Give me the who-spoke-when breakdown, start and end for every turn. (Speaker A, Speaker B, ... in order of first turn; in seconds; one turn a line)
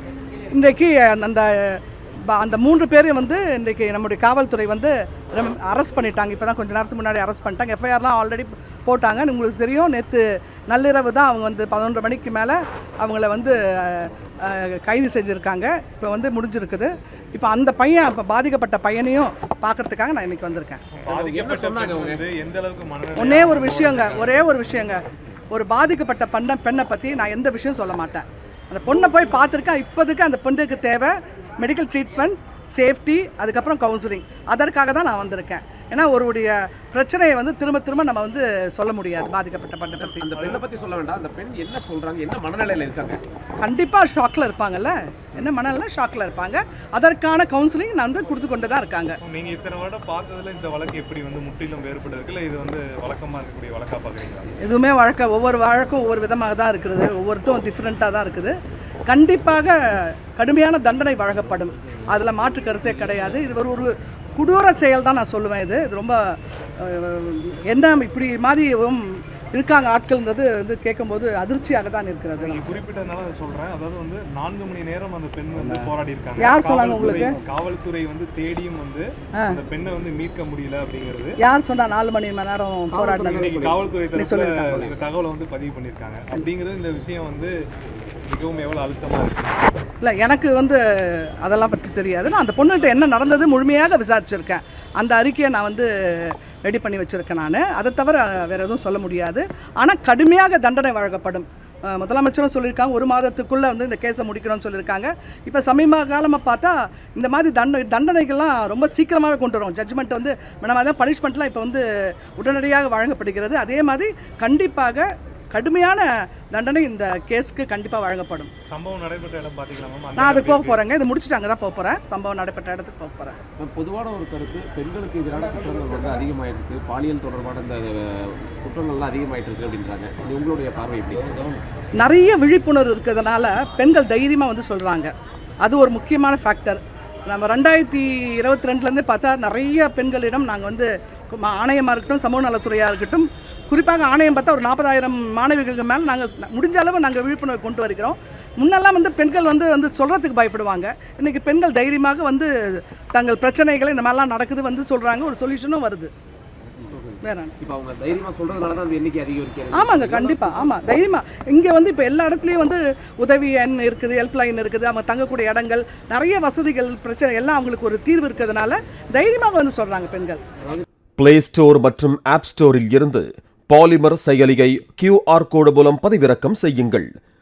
Speaker A: 0.5-20.8
Speaker B: 20.9-24.4
Speaker C: 21.1-22.2
Speaker A: 23.1-25.0
Speaker A: 25.5-40.2
Speaker C: 40.1-43.2
Speaker B: 40.3-40.7
Speaker A: 43.6-49.2
Speaker B: 49.2-54.5
Speaker A: 54.6-58.5
Speaker A: 59.1-66.2
Speaker A: 66.8-72.7
Speaker B: 72.4-81.3
Speaker A: 76.4-77.3
Speaker A: 81.4-83.5
Speaker C: 82.9-83.9
Speaker B: 83.3-87.6
Speaker A: 84.1-84.7
Speaker C: 84.7-84.9
Speaker B: 88.3-89.6
Speaker A: 90.0-118.5
Speaker B: 118.7-120.8
Speaker A: 120.2-123.4
Speaker C: 123.6-131.6
Speaker A: 131.9-156.1
Speaker C: 156.8-160.8
Speaker A: 157.2-157.5
Speaker A: 159.7-170.4
Speaker D: 171.2-177.1